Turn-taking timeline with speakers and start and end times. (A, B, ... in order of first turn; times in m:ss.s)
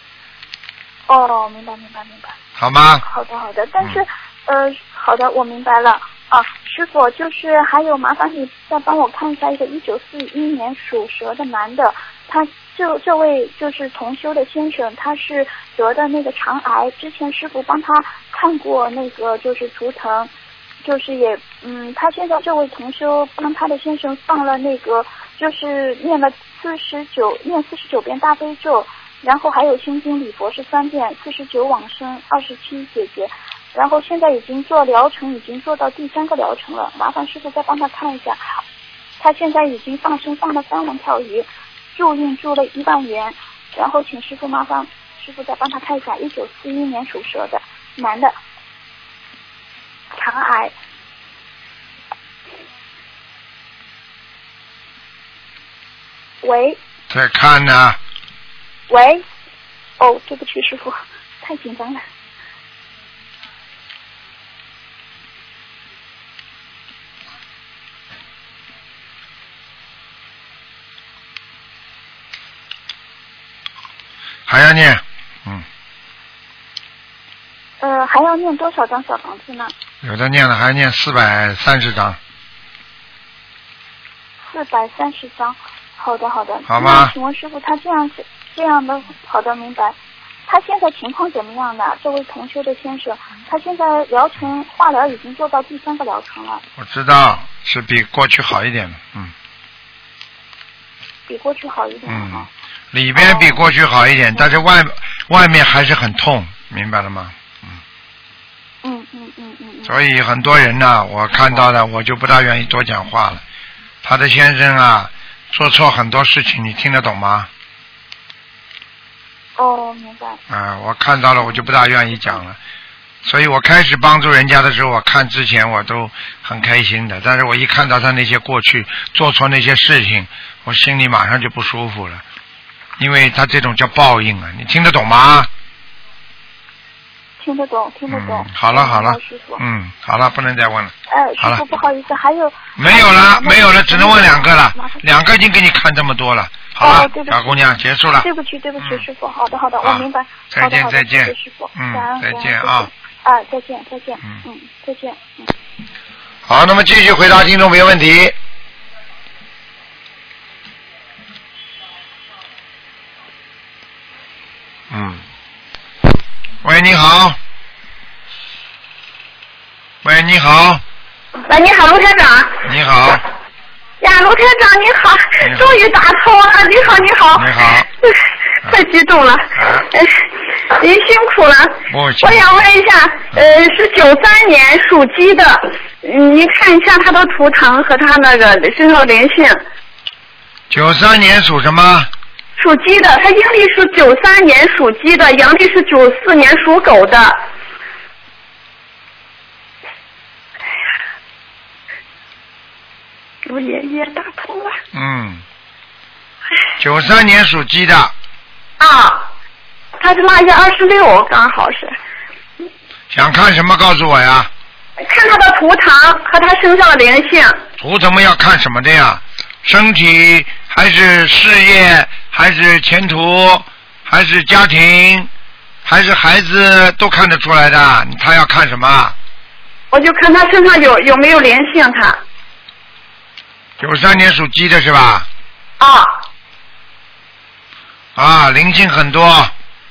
0:01.1-0:02.4 A
0:02.6-0:03.0 B
0:03.0-0:20.3 A
0:20.8-0:38.6 A
0:39.2-0:48.4 A
0:50.2-0:50.7 A
0:56.4-0:56.8 A
0:57.1-0:58.0 B
0:58.9-0:59.2 A
1:00.0-1:02.0 A
1:14.5-1:15.6 B
1:17.8-1:19.7 A
1:20.0-1:22.2 B
1:24.4-1:30.0 A
1:26.7-1:27.1 B
1:30.5-1:36.6 A
1:36.8-1:39.3 B
1:41.3-1:42.5 A
1:42.1-1:47.8 B
1:43.2-1:43.6 A
1:48.8-1:50.0 A
1:49.9-1:53.4 B
1:54.0-1:57.5 B
1:59.6-2:00.4 A
2:00.5-2:02.6 B
2:01.5-2:02.4 A
2:03.2-2:12.2 B
2:13.0-2:15.5 B
2:17.4-2:19.6 A
2:18.1-2:21.6 B
2:21.1-2:25.0 A
2:22.8-2:28.3 B
2:26.8-2:27.6 A
2:28.2-2:35.5 A
2:28.8-2:29.0 B
2:29.8-2:32.9 B
2:36.5-2:38.4 B
2:44.9-2:45.2 B
2:46.6-2:47.4 B
2:50.0-2:50.8 B
2:51.5-2:52.6 C
2:52.6-2:53.2 B
2:54.0-3:00.2 C
2:55.4-2:55.7 B
2:56.9-2:57.9 B
2:59.6-2:59.9 B
3:00.7-3:09.6 C
3:01.9-3:02.6 B
3:10.7-3:12.1 B
3:12.6-3:17.4 C
3:23.4-3:24.8 C
3:24.9-3:25.4 B
3:26.8-3:28.1 B
3:28.8-3:29.3 C
3:30.0-3:32.0 C
3:33.1-3:34.5 B
3:35.0-3:37.6 C
3:37.8-3:45.3 B
3:45.8-3:49.2 B
3:49.9-3:52.2 C
3:53.8-3:55.3 B
3:55.8-3:56.2 C
3:58.2-3:59.5 B